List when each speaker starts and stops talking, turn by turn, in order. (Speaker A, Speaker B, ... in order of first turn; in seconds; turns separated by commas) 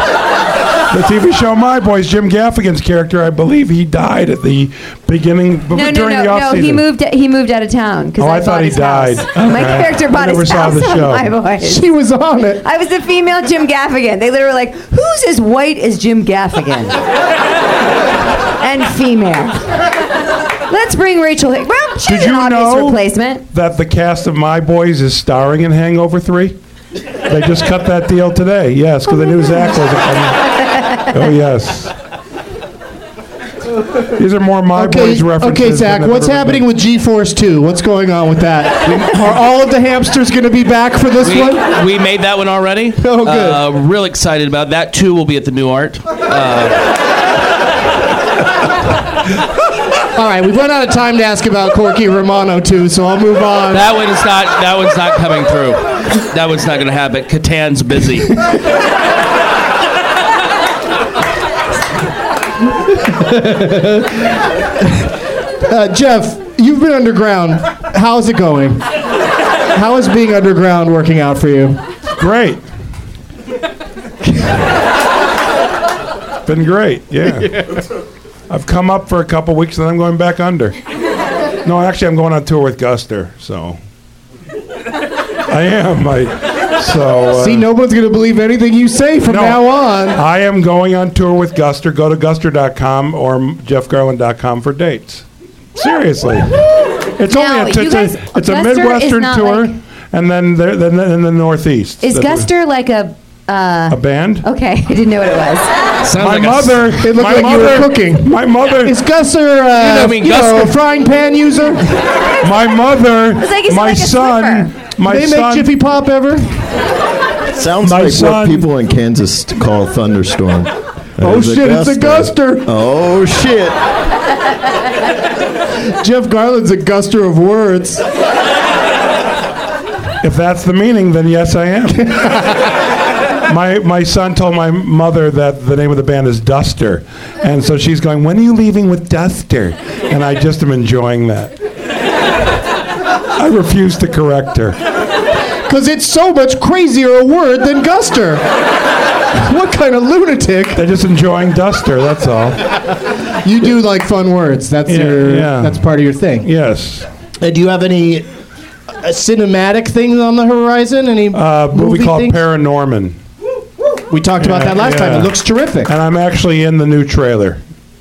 Speaker A: 0.9-6.8, Speaker B: 5.7-11.8, Speaker A: 8.2-11.3, Speaker C: 11.6-12.6, Speaker B: 12.6-17.0, Speaker B: 18.6-19.7, Speaker B: 20.7-23.4, Speaker A: 22.0-23.0, Speaker A: 23.5-26.6, Speaker A: 27.3-31.9, Speaker A: 34.0-36.7, Speaker C: 34.8-41.7, Speaker D: 41.2-46.9, Speaker C: 43.0-43.6, Speaker C: 50.1-53.9, Speaker D: 53.7-58.4, Speaker C: 63.0-64.2, Speaker C: 64.8-65.1, Speaker C: 65.7-68.9, Speaker C: 69.7-71.8, Speaker A: 72.2-72.6, Speaker A: 76.5-77.8, Speaker A: 78.5-80.8, Speaker A: 81.6-83.8, Speaker A: 85.5-87.7, Speaker C: 87.4-90.2, Speaker A: 89.3-96.6, Speaker A: 97.2-102.5, Speaker B: 97.3-99.8, Speaker B: 102.0-105.7, Speaker A: 103.9-104.5, Speaker D: 106.0-106.9, Speaker A: 106.1-109.0, Speaker C: 107.0-111.9, Speaker D: 109.7-110.8, Speaker A: 112.4-115.7, Speaker B: 113.3-114.7, Speaker C: 115.0-116.5, Speaker E: 117.5-123.8, Speaker A: 117.8-118.7, Speaker C: 121.2-122.7, Speaker C: 126.0-128.0, Speaker A: 130.2-132.3, Speaker A: 133.5-141.5, Speaker A: 143.4-144.8, Speaker C: 145.7-148.4, Speaker C: 149.3-150.8, Speaker A: 150.8-152.8, Speaker C: 153.4-156.5, Speaker A: 154.9-155.8, Speaker A: 156.4-157.1, Speaker C: 157.4-158.3, Speaker C: 159.0-162.4, Speaker A: 161.3-163.2, Speaker C: 164.1-165.9, Speaker A: 164.4-165.3, Speaker A: 165.8-167.6